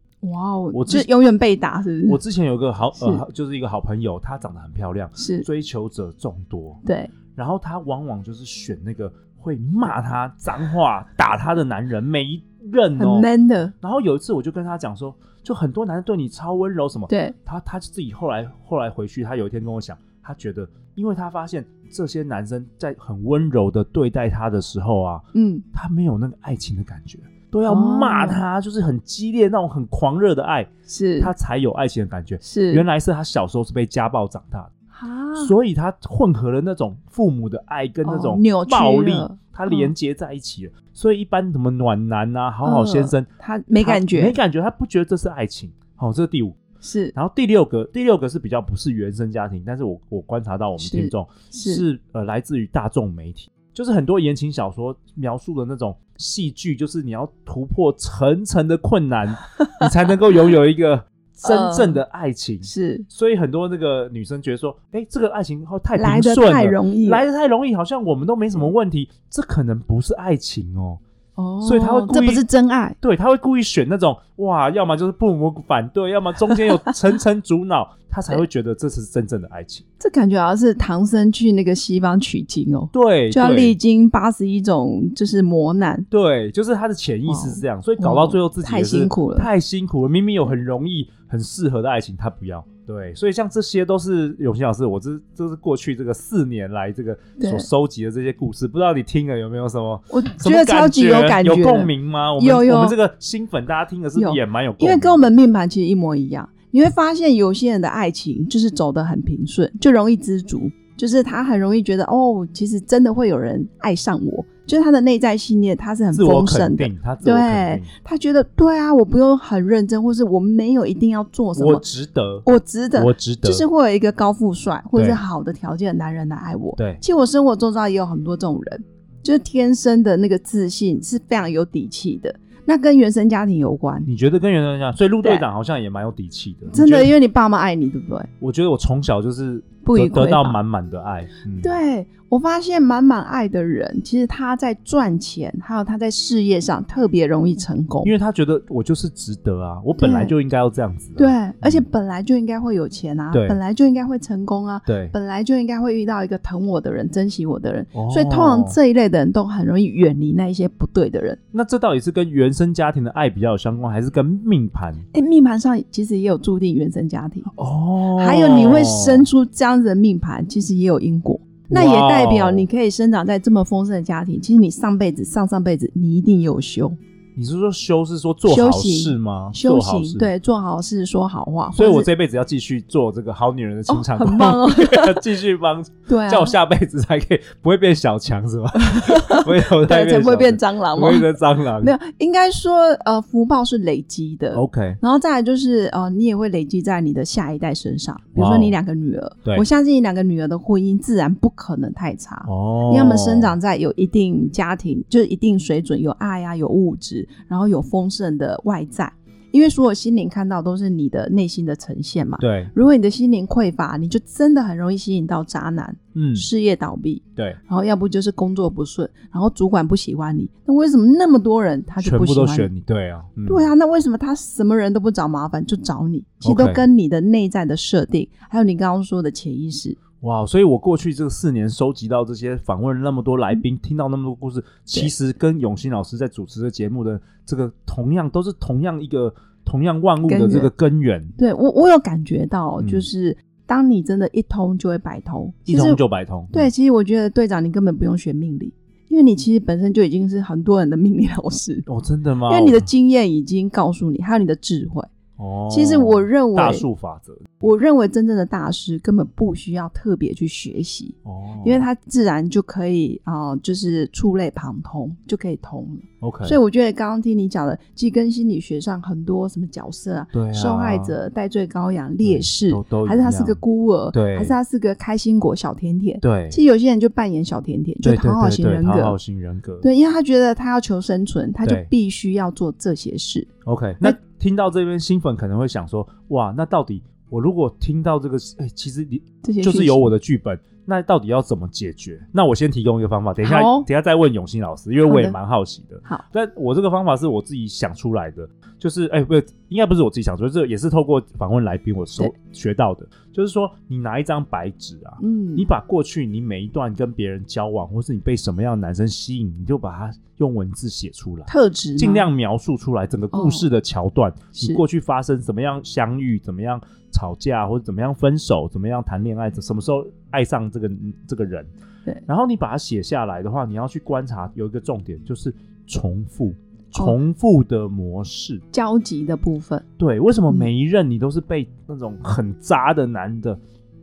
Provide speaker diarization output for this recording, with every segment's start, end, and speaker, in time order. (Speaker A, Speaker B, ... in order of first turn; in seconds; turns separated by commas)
Speaker A: 0.2-2.2, Speaker B: 0.7-1.1, Speaker B: 2.1-6.8, Speaker A: 3.0-3.2, Speaker A: 5.2-5.5, Speaker A: 6.8-7.1, Speaker B: 7.3-13.3, Speaker A: 13.0-13.7, Speaker B: 13.8-30.7, Speaker A: 17.1-17.4, Speaker A: 25.3-25.6, Speaker A: 27.7-28.4, Speaker A: 30.9-31.3, Speaker B: 31.2-34.7, Speaker A: 32.4-32.8, Speaker A: 34.9-35.5, Speaker B: 35.4-43.3, Speaker A: 38.0-39.9, Speaker A: 42.6-44.4, Speaker B: 43.8-46.6, Speaker A: 46.8-47.1, Speaker B: 47.1-71.0, Speaker A: 50.8-51.8, Speaker A: 61.5-62.0, Speaker A: 62.6-63.1, Speaker A: 66.0-67.2, Speaker A: 71.4-73.0, Speaker B: 71.6-72.4, Speaker B: 73.0-79.8, Speaker A: 80.0-86.1, Speaker B: 82.9-83.8, Speaker B: 86.1-105.2, Speaker A: 87.3-89.5, Speaker A: 97.4-97.7, Speaker A: 100.1-103.0, Speaker A: 104.2-121.8, Speaker B: 116.1-117.9, Speaker B: 121.6-123.7, Speaker A: 122.5-134.1, Speaker B: 126.8-127.0, Speaker B: 134.1-137.1, Speaker A: 136.7-138.3, Speaker B: 138.4-141.7, Speaker A: 139.8-140.6, Speaker A: 141.6-148.1, Speaker B: 148.0-151.8, Speaker A: 150.0-150.3, Speaker A: 151.2-161.4, Speaker B: 153.3-153.6, Speaker B: 154.9-155.2, Speaker B: 157.9-158.8, Speaker B: 161.5-165.1, Speaker A: 165.1-167.5, Speaker B: 167.5-169.3, Speaker A: 168.2-177.0, Speaker B: 171.7-172.7, Speaker B: 177.4-180.3, Speaker A: 178.5-182.1, Speaker B: 181.8-191.9, Speaker A: 183.9-185.2, Speaker A: 186.1-186.6, Speaker A: 188.8-222.7, Speaker B: 194.5-195.0, Speaker B: 198.4-198.8, Speaker B: 202.5-203.6, Speaker B: 212.4-212.7, Speaker B: 216.2-216.5, Speaker B: 222.0-223.7, Speaker A: 223.4-230.0, Speaker B: 226.4-226.8, Speaker B: 230.2-241.3, Speaker A: 240.2-240.7, Speaker A: 241.4-246.0, Speaker B: 242.8-243.1, Speaker B: 245.7-246.7, Speaker A: 246.5-251.9, Speaker B: 251.9-252.9, Speaker A: 252.5-255.1, Speaker B: 255.4-257.6, Speaker A: 255.7-256.9, Speaker A: 257.6-279.2, Speaker B: 261.2-261.9, Speaker B: 266.2-266.6, Speaker B: 270.3-271.1, Speaker B: 272.2-273.6, Speaker B: 274.1-274.6, Speaker B: 276.2-276.6, Speaker B: 278.0-279.9, Speaker A: 279.8-283.5, Speaker B: 281.6-281.9, Speaker B: 283.6-321.7, Speaker A: 289.4-290.1, Speaker A: 293.4-293.9, Speaker A: 295.0-295.4, Speaker A: 305.2-305.7, Speaker A: 311.5-312.3, Speaker A: 313.3-313.7, Speaker A: 314.6-314.8, Speaker B: 322.3-328.6, Speaker A: 328.7-329.9, Speaker B: 330.0-333.6